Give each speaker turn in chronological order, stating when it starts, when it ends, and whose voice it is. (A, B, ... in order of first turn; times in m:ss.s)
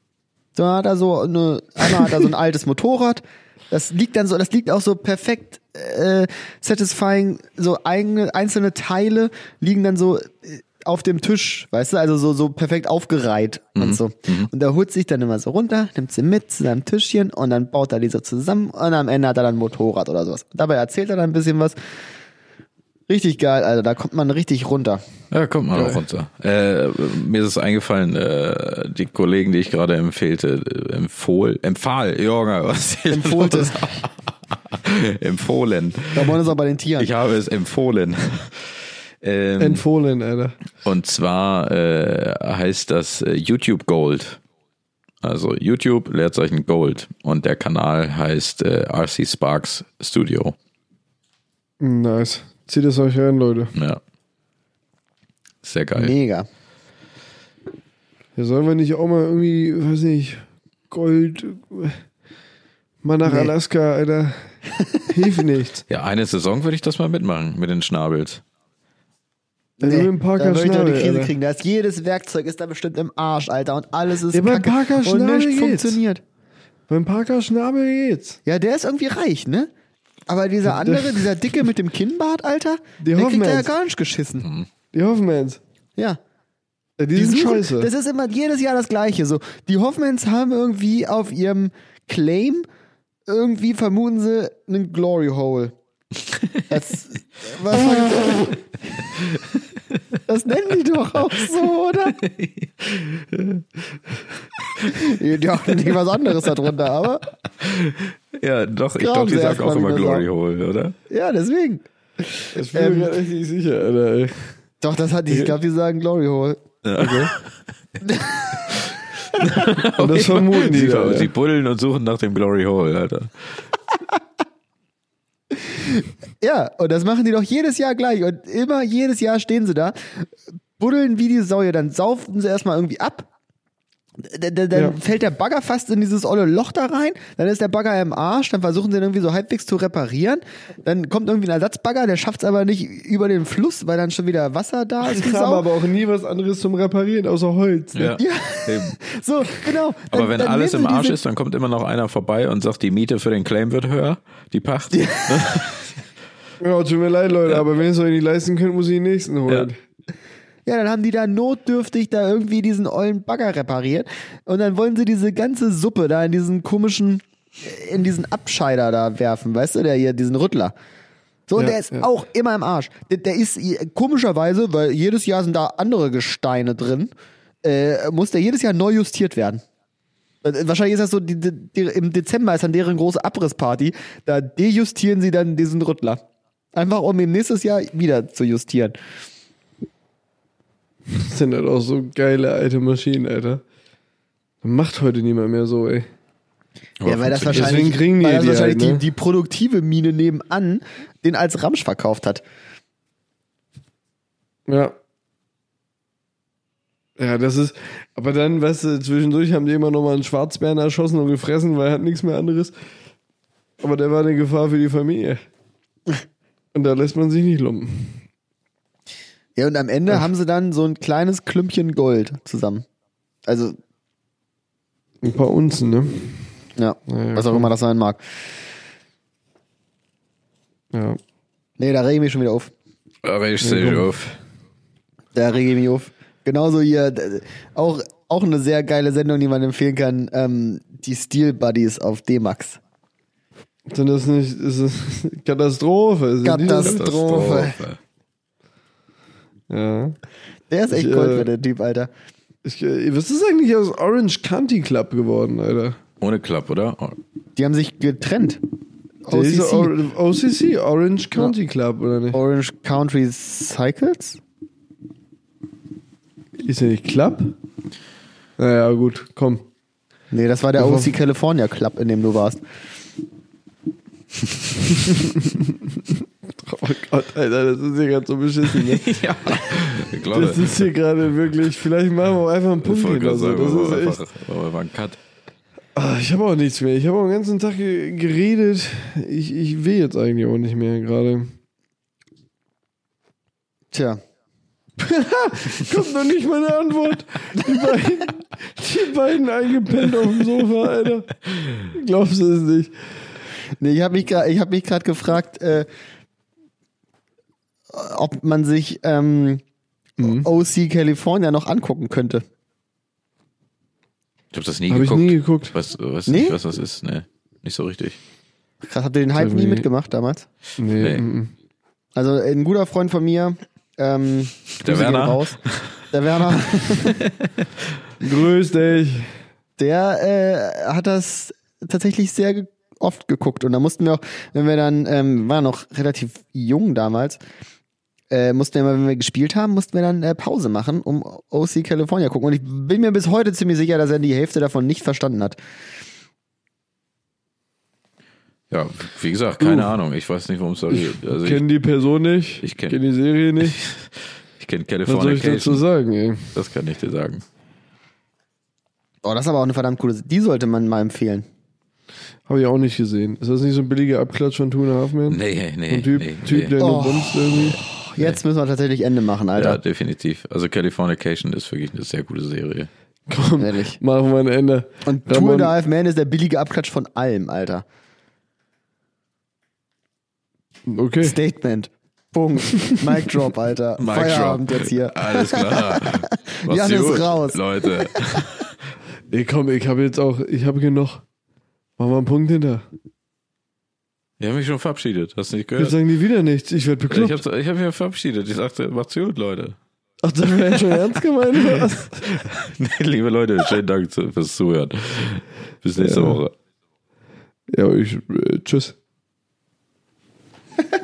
0:00.6-0:21.8 A
0:13.8-0:14.5 B
0:23.1-0:25.0 A
0:25.3-0:36.4 B
0:25.8-0:26.0 C
0:33.1-0:33.9 A
0:36.1-0:37.1 A
0:37.0-0:39.8 B
0:39.6-0:40.6 C
0:40.8-0:44.4 B
0:45.2-0:50.6 B
0:51.8-0:53.7 C
0:53.8-0:54.0 B
0:55.6-0:56.1 B
0:56.0-0:56.5 A
0:58.4-1:02.0 C
1:03.0-1:04.6 C
1:03.2-1:03.5 A
1:05.1-1:05.9 C
1:05.9-1:08.4 B
1:09.8-1:16.2 A
1:09.8-1:11.3 C
1:14.3-1:16.0 C
1:16.9-1:18.4 C
1:18.5-1:19.7 A
1:20.3-1:24.5 A
1:20.7-1:21.6 C
1:23.0-1:23.7 C
1:24.4-1:24.7 B
1:24.9-1:25.6 C
1:27.0-1:27.9 C
1:27.2-1:32.7 A
1:33.3-1:35.8 A
1:36.4-1:36.6 B
1:36.7-1:39.0 A
1:40.3-1:42.2 A
1:42.2-1:43.6 B
1:44.6-1:45.1 B
1:44.9-1:47.3 A
1:47.5-1:51.0 B
1:49.0-1:50.3 A
1:51.1-1:53.1 A
1:52.5-1:54.6 C
1:54.8-1:56.6 A
1:56.8-1:57.6 B
1:57.0-1:57.3 C
1:58.1-1:58.6 A
1:58.7-2:03.5 B
1:59.6-2:01.3 C
2:05.5-2:10.2 A
2:10.8-2:13.3 A
2:14.2-2:25.7 A
2:25.0-2:28.2 C
2:27.9-2:29.0 B
2:28.2-2:31.2 A
2:30.1-2:36.0 B
2:34.9-2:35.7 A
2:36.6-2:39.8 C
2:40.7-2:50.7 A
2:51.5-2:57.1 A
2:51.6-2:52.1 C
2:57.6-2:59.6 A
3:00.4-3:06.2 A
3:06.8-3:09.0 A
3:11.1-3:13.6 C
3:14.6-3:16.1 C
3:17.0-3:17.9 B
3:17.0-3:22.4 A
3:17.5-3:19.0 C
3:24.7-3:25.0 C
3:27.2-3:32.7 C
3:33.8-3:35.4 C
3:36.8-3:38.2 C
3:39.6-3:42.9 A
3:43.5-3:43.8 A
3:45.2-3:46.5 C
3:46.8-3:48.2 A
3:47.1-3:47.7 C
3:50.9-3:51.2 C
3:51.8-3:52.7 A
3:53.2-3:54.4 B
3:53.6-3:54.1 C
3:55.4-4:02.8 A
4:03.9-4:07.0 C
4:06.4-4:07.8 A
4:06.8-4:08.0 B
4:09.7-4:10.2 C
4:10.7-4:12.1 A
4:10.9-4:11.5 C
4:12.6-4:16.0 C
4:16.2-4:17.2 B
4:17.6-4:18.6 A
4:19.3-4:19.9 A
4:19.3-4:22.4 C
4:22.3-4:24.4 A
4:26.6-4:27.6 C
4:28.6-4:29.7 C
4:30.3-4:32.6 A
4:30.8-4:31.2 C
4:35.3-4:39.1 C
4:38.7-4:40.9 B
4:40.3-4:44.2 C
4:42.8-4:45.2 B
4:46.0-4:51.6 C
4:53.9-4:54.2 A
4:55.0-5:03.0 C
5:03.8-5:05.9 A
5:07.9-5:09.6 A
5:10.2-5:10.5 C
5:10.2-5:12.4 A
5:14.5-5:18.2 B
5:14.9-5:15.7 C
5:16.3-5:16.6 A
5:18.8-5:20.5 A
5:19.4-5:19.9 C
5:20.8-5:21.5 C
5:22.2-5:25.6 A
5:24.8-5:26.0 B
5:26.1-5:27.2 A
5:27.0-5:27.7 B
5:28.2-5:29.3 C
5:29.8-5:37.4 A
5:38.3-5:45.6 A
5:48.7-5:51.6 B
5:49.6-5:49.9 C
5:50.9-5:53.8 C
5:52.6-5:53.0 B
5:53.6-5:55.8 B
5:55.1-5:56.6 C
5:56.5-5:57.4 B
5:59.2-6:01.4 A
6:02.5-6:07.8 C
6:05.3-6:06.8 B
6:06.8-6:09.8 A
6:09.6-6:12.9 B
6:13.3-6:15.8 C
6:13.6-6:14.0 A
6:15.0-6:17.8 A
6:20.9-6:21.4 C
6:21.2-6:28.2 A
6:24.0-6:28.7 B
6:29.3-6:31.2 C
6:32.0-6:32.9 C
6:34.4-6:36.0 B
6:35.8-6:37.4 C
6:37.1-6:39.8 B
6:40.2-6:42.3 C
6:40.7-6:41.0 B
6:41.6-6:46.5 B
6:46.0-6:46.4 C
6:47.7-6:49.0 C